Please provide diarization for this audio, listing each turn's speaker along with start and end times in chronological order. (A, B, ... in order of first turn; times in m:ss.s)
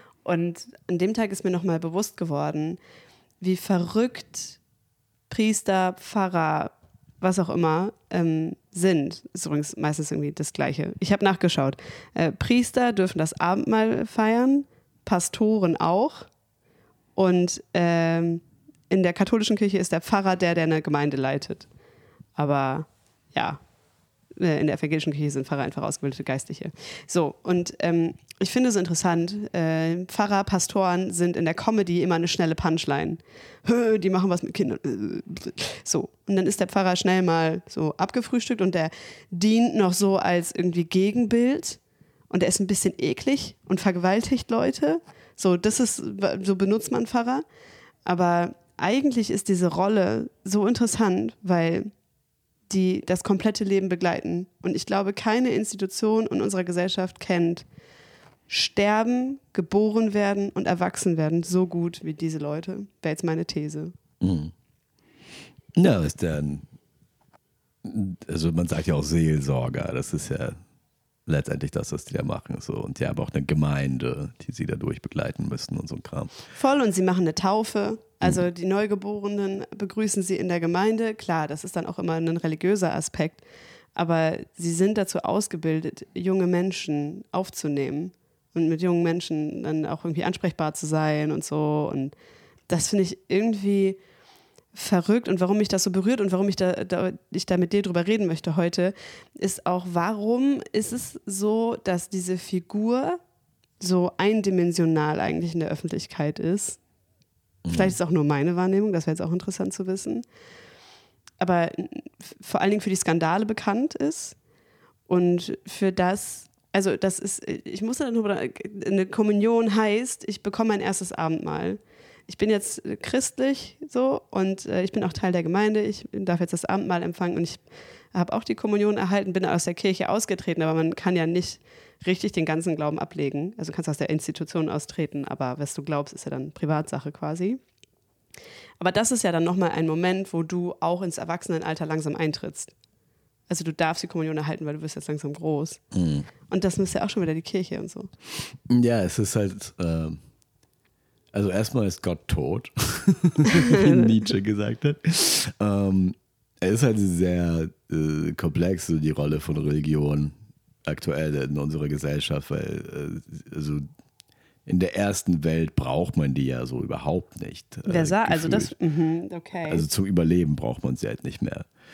0:00.2-0:02.8 A
0:03.4-0:04.6 A
0:05.3-0:16.3 A
0:17.2-0:21.7 A
0:22.4-0:23.6 A
0:24.4-0:41.8 A
0:42.3-0:47.4 A
0:48.0-0:51.9 A
0:52.7-0:57.6 A
0:58.5-1:03.9 A
1:04.2-1:04.5 B
1:05.8-1:06.6 B
1:07.8-1:10.6 B
1:11.2-1:16.3 B
1:16.5-1:23.4 A
1:24.0-1:32.1 A
1:32.7-1:34.0 A
1:34.7-1:43.2 A
1:43.8-1:46.8 A
1:47.6-1:48.0 B
1:47.7-1:50.2 A
1:51.4-1:54.4 A
1:55.1-2:07.6 A
2:08.1-2:17.6 A
2:18.8-2:22.7 A
2:23.5-2:25.8 A
2:25.9-2:26.3 B
2:26.5-2:28.1 A
2:28.7-2:30.2 B
2:31.3-2:40.3 B
2:33.5-2:34.1 A
2:40.8-2:43.8 B
2:44.6-2:48.7 B
2:47.8-2:49.8 A
2:49.7-2:51.7 B